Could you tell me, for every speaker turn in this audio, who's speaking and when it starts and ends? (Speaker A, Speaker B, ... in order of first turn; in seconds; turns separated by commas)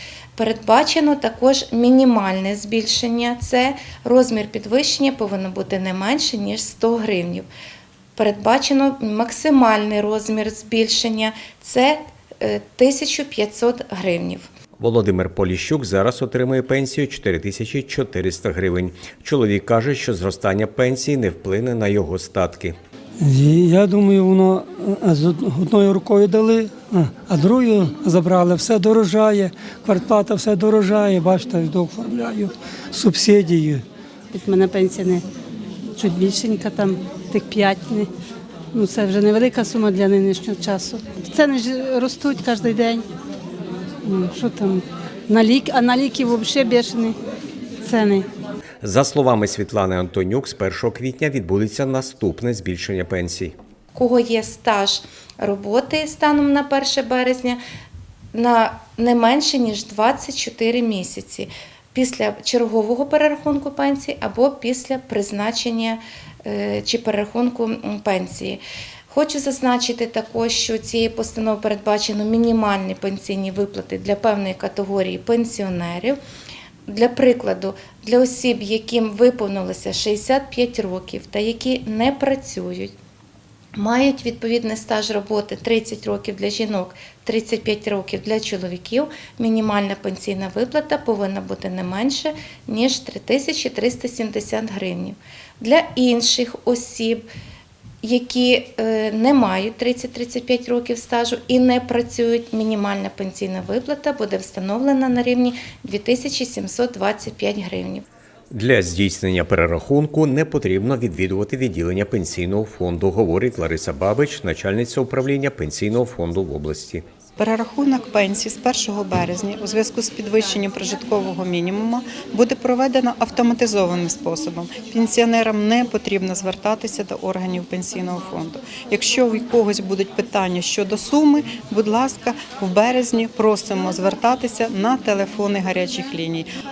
Speaker A: 0.4-7.5, Speaker A: 8.2-14.5, Speaker B: 14.8-22.8, Speaker C: 23.2-33.8, Speaker D: 34.3-35.2, Speaker D: 36.0-38.1, Speaker D: 38.7-43.0, Speaker D: 44.0-47.2, Speaker D: 47.8-48.3, Speaker B: 48.8-53.5, Speaker A: 53.9-57.6, Speaker A: 58.3-76.2, Speaker A: 76.9-82.9, Speaker A: 83.8-97.2, Speaker A: 98.0-108.0, Speaker B: 108.5-117.0, Speaker E: 117.4-136.5